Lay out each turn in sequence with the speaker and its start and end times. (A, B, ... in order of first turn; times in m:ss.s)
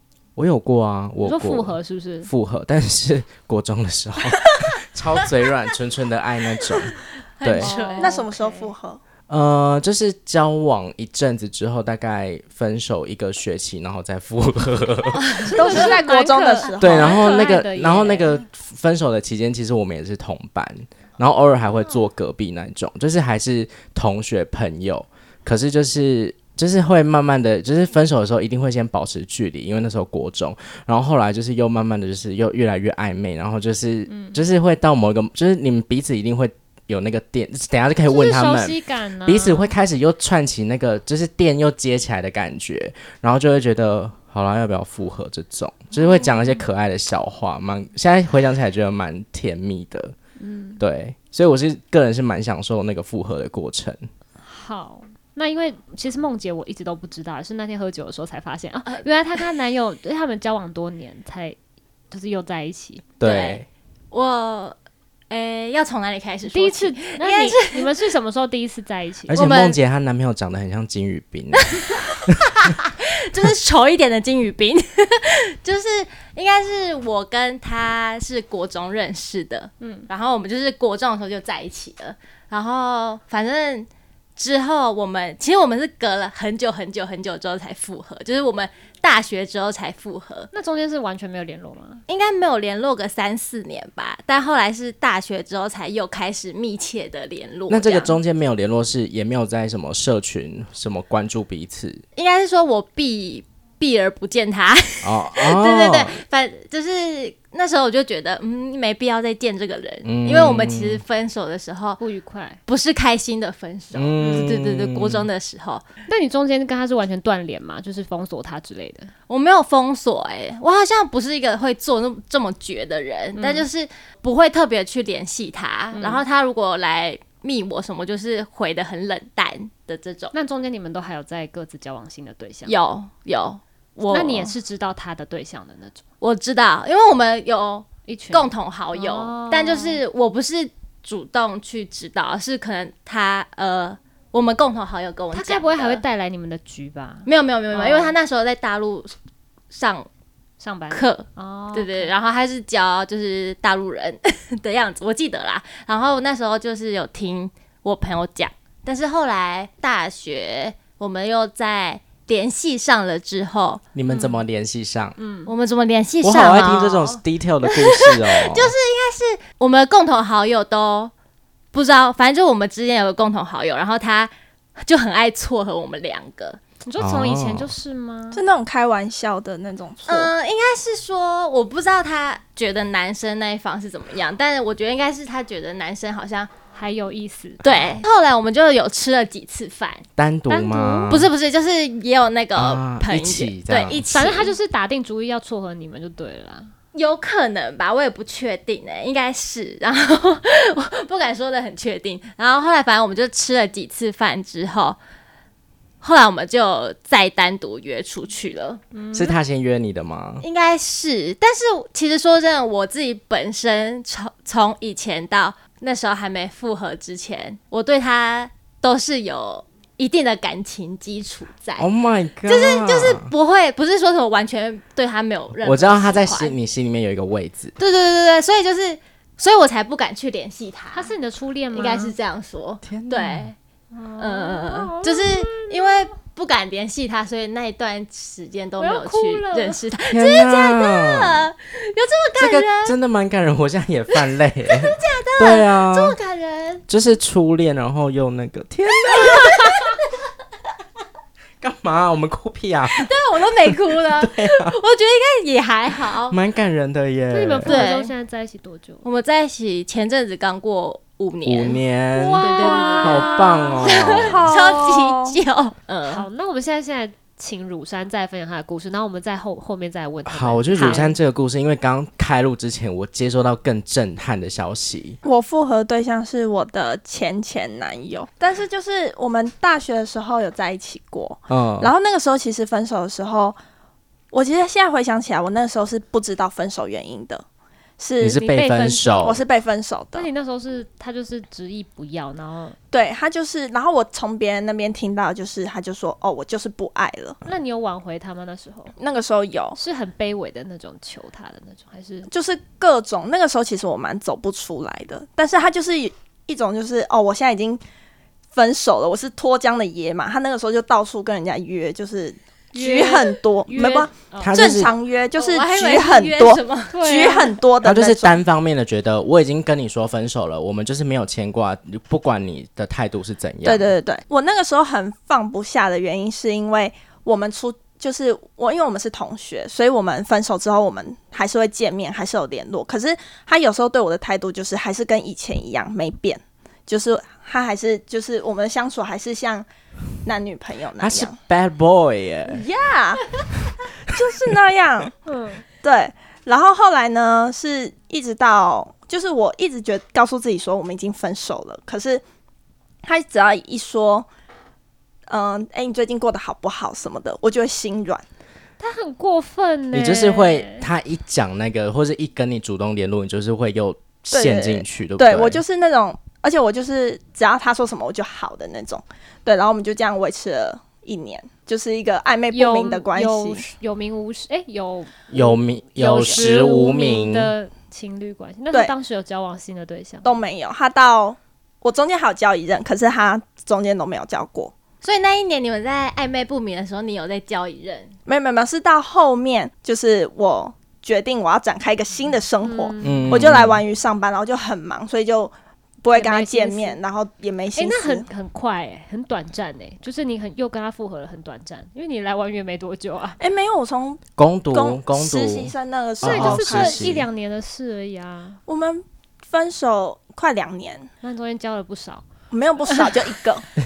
0:00.4-0:07.8 A
0:01.2-0:02.3 B
0:07.4-0:08.2 C
0:07.6-0:08.7 B
0:08.0-0:09.0 D
0:09.3-0:15.9 A
0:15.2-0:18.4 B
0:15.4-0:17.2 D
0:16.8-0:50.1 A
0:34.1-0:34.4 B
0:38.1-0:39.7 B
0:45.9-0:46.6 B
0:50.4-0:50.8 B
0:50.8-0:54.0 A
0:54.4-1:01.6 B
0:58.8-0:59.5 C
1:02.1-1:03.0 B
1:03.2-1:03.6 A
1:03.2-1:04.8 C
1:05.3-1:07.9 C
1:06.5-1:09.5 B
1:09.3-1:11.7 A
1:09.4-1:09.8 C
1:11.5-1:30.5 C
1:19.8-1:20.1 B
1:30.5-1:32.0 B
1:32.1-1:38.2 C
1:37.7-1:42.0 A
1:42.2-1:52.0 C
1:45.0-1:46.2 A
1:50.0-1:51.0 A
1:52.0-1:52.6 B
1:52.6-1:55.8 C
1:53.9-1:55.3 A
1:54.2-1:54.5 B
1:56.0-1:59.1 B
1:59.3-2:10.3 C
2:03.3-2:03.7 B
2:05.9-2:06.2 B
2:10.3-2:12.8 B
2:12.6-2:14.5 C
2:14.1-2:16.0 B
2:16.2-2:26.0 C
2:18.0-2:20.0 B
2:25.3-2:28.2 B
2:27.2-2:29.1 C
2:29.7-2:30.1 C
2:30.6-2:32.1 B
2:30.9-2:43.8 C
2:43.9-2:45.2 A
2:44.1-2:44.4 B
2:45.2-2:45.5 B
2:45.4-2:51.1 C
2:46.2-2:48.7 A
2:51.7-2:56.6 C
2:56.8-2:58.4 B
2:57.0-2:57.7 A
2:58.3-3:00.3 D
3:00.0-3:06.5 C
3:06.7-3:08.0 B
3:07.6-3:10.0 C
3:10.2-3:11.3 A
3:10.5-3:11.2 B
3:11.1-3:14.5 C
3:12.5-3:14.1 A
3:14.1-3:16.7 B
3:16.9-3:25.0 C
3:26.0-3:28.8 C
3:28.9-3:29.4 B
3:29.1-3:30.4 A
3:30.4-3:41.9 C
3:41.8-3:43.3 A
3:42.4-3:46.6 C
3:45.6-3:47.7 A
3:47.8-3:51.1 C
3:50.9-3:52.2 B
3:51.7-3:53.6 C
3:52.8-3:53.5 A
3:53.9-3:56.1 B
3:54.2-4:02.9 C
3:58.8-3:59.8 B
4:00.1-4:01.5 A
4:02.4-4:06.2 A
4:04.1-4:06.8 C
4:06.9-4:09.6 A
4:09.1-4:09.6 C
4:11.6-4:14.7 A
4:13.0-4:16.3 C
4:16.3-4:17.8 A
4:17.3-4:19.0 B
4:17.6-4:18.1 C
4:19.0-4:21.8 C
4:21.4-4:24.5 A
4:22.1-4:24.5 B
4:22.4-4:26.3 C
4:24.1-4:25.4 D
4:26.0-4:31.2 B
4:30.2-4:35.2 A
4:35.2-4:43.6 D
4:41.5-4:41.9 A
4:44.3-4:47.4 D
4:48.0-4:48.4 D
4:48.2-4:49.4 A
4:48.4-4:49.4 B
4:49.2-4:50.3 D
4:50.1-4:52.8 B
4:52.9-4:57.4 D
4:57.4-4:58.9 B
4:59.0-4:59.8 D
4:59.7-5:02.3 B
5:02.3-5:07.8 D
5:08.5-5:18.4 D
5:12.7-5:14.5 B
5:14.4-5:14.9 A
5:14.5-5:17.0 C
5:16.9-5:17.5 B
5:17.8-5:23.9 A
5:23.6-5:39.7 D
5:40.2-5:41.4 D
5:41.0-5:42.6 A
5:42.5-5:43.2 D
5:44.1-5:45.1 D
5:45.2-5:45.6 B
5:45.8-5:52.2 D
5:53.0-5:54.3 D
5:55.3-5:58.2 D
5:58.8-6:00.9 B
5:59.9-6:05.6 A
6:04.3-6:13.6 D
6:12.5-6:20.3 B
6:15.3-6:17.5 A
6:20.2-6:24.7 D
6:25.0-6:28.1 C
6:28.2-6:38.3 D
6:32.6-6:33.5 B
6:33.0-6:33.8 A
6:36.1-6:37.0 B
6:37.8-6:43.4 B
6:43.4-6:47.2 D
6:44.4-6:47.3 A
6:46.2-6:48.6 B
6:48.6-6:51.1 D
6:51.2-6:52.2 B
6:52.5-6:53.7 D